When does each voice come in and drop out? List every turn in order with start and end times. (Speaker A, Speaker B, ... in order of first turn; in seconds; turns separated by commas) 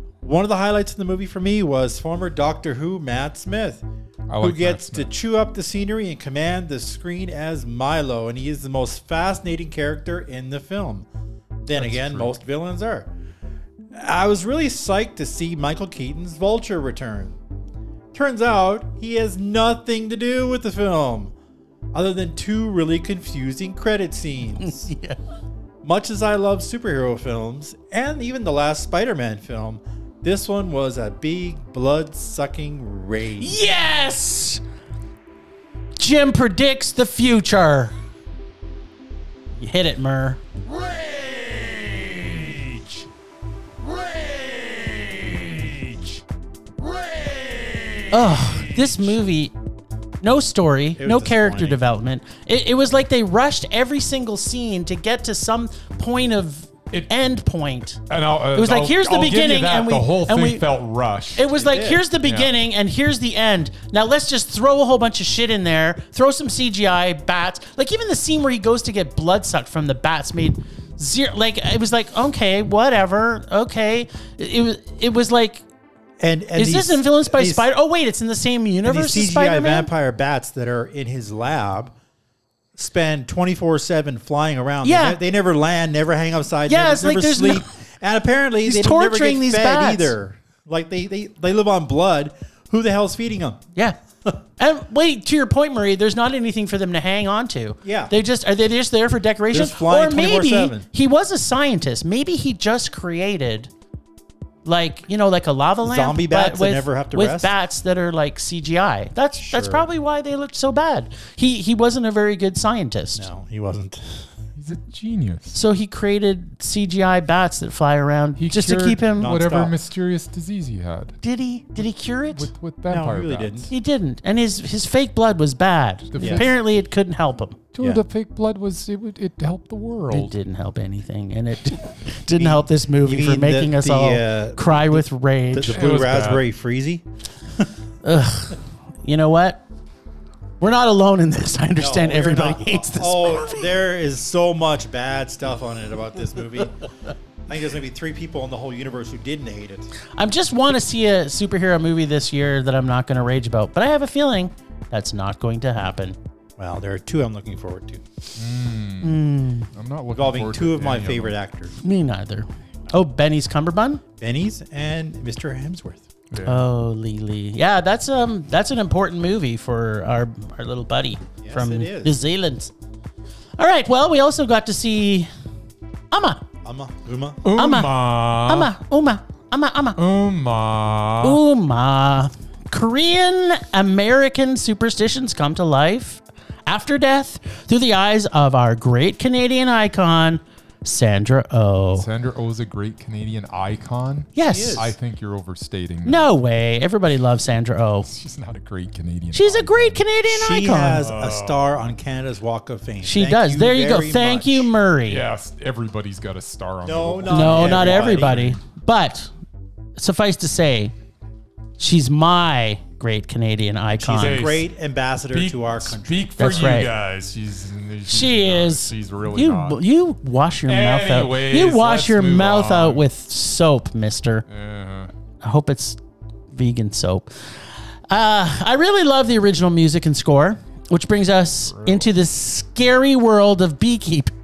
Speaker A: 0.2-3.8, Speaker B: 4.3-5.1, Speaker A: 4.4-11.1, Speaker A: 11.6-13.1, Speaker B: 11.8-12.3, Speaker A: 13.9-17.4, Speaker A: 18.1-21.3, Speaker A: 21.9-24.9, Speaker C: 24.6-25.2, Speaker A: 25.8-33.6, Speaker C: 33.4-34.6, Speaker C: 36.0-38.0, Speaker C: 39.6-40.4, Speaker B: 40.7-43.0, Speaker B: 43.8-46.2, Speaker B: 46.8-49.1, Speaker C: 48.1-49.5, Speaker C: 50.2-58.0, Speaker A: 51.0-51.8, Speaker B: 58.1-61.5, Speaker C: 58.5-60.6, Speaker C: 61.4-75.6, Speaker A: 61.5-62.0, Speaker B: 62.2-62.5, Speaker A: 76.2-77.7, Speaker C: 76.6-79.9, Speaker A: 78.8-81.9, Speaker A: 82.8-93.6, Speaker C: 84.8-85.2, Speaker C: 86.7-87.7, Speaker C: 88.6-90.1, Speaker C: 94.6-103.7, Speaker A: 97.8-98.1, Speaker A: 99.5-100.9, Speaker C: 104.7-113.3, Speaker A: 105.8-107.5, Speaker A: 109.4-109.9, Speaker A: 113.2-114.3, Speaker B: 114.6-115.6, Speaker C: 115.5-119.3, Speaker B: 118.4-121.2, Speaker A: 119.2-119.8, Speaker C: 121.2-122.5, Speaker B: 122.4-123.7, Speaker A: 122.9-123.7, Speaker C: 123.7-127.6, Speaker B: 126.1-126.5, Speaker A: 126.2-126.5, Speaker B: 127.7-130.3, Speaker C: 130.1-135.9, Speaker A: 132.3-137.1, Speaker B: 135.7-136.4, Speaker C: 138.0-139.6, Speaker C: 140.6-143.7, Speaker A: 141.8-146.8, Speaker A: 147.5-149.9, Speaker C: 150.2-156.2, Speaker A: 156.6-158.0, Speaker B: 158.4-161.4, Speaker C: 159.0-159.7, Speaker A: 160.1-161.8, Speaker C: 161.8-164.0, Speaker A: 164.2-166.1, Speaker B: 166.3-166.7, Speaker C: 166.4-172.7, Speaker A: 171.4-172.2, Speaker C: 173.6-175.3, Speaker C: 176.1-176.4, Speaker A: 176.6-177.4, Speaker B: 177.4-178.7, Speaker C: 177.6-180.0, Speaker B: 180.0-181.4, Speaker C: 181.2-192.1, Speaker B: 192.0-196.3, Speaker C: 194.3-194.9, Speaker A: 194.5-194.9, Speaker C: 196.1-198.1, Speaker B: 198.1-200.0, Speaker C: 199.3-201.1, Speaker A: 200.3-204.7, Speaker B: 201.0-201.6, Speaker C: 203.0-205.2, Speaker B: 205.1-208.6, Speaker A: 206.8-208.6, Speaker C: 207.3-209.3, Speaker C: 210.0-210.9, Speaker C: 211.8-214.5, Speaker A: 214.0-216.6, Speaker B: 214.1-214.7, Speaker B: 215.3-219.8, Speaker C: 216.4-216.9, Speaker C: 218.1-224.5, Speaker B: 220.7-223.1, Speaker B: 224.5-225.1, Speaker C: 225.4-226.0, Speaker C: 226.5-227.3, Speaker C: 228.1-234.3, Speaker B: 231.7-232.1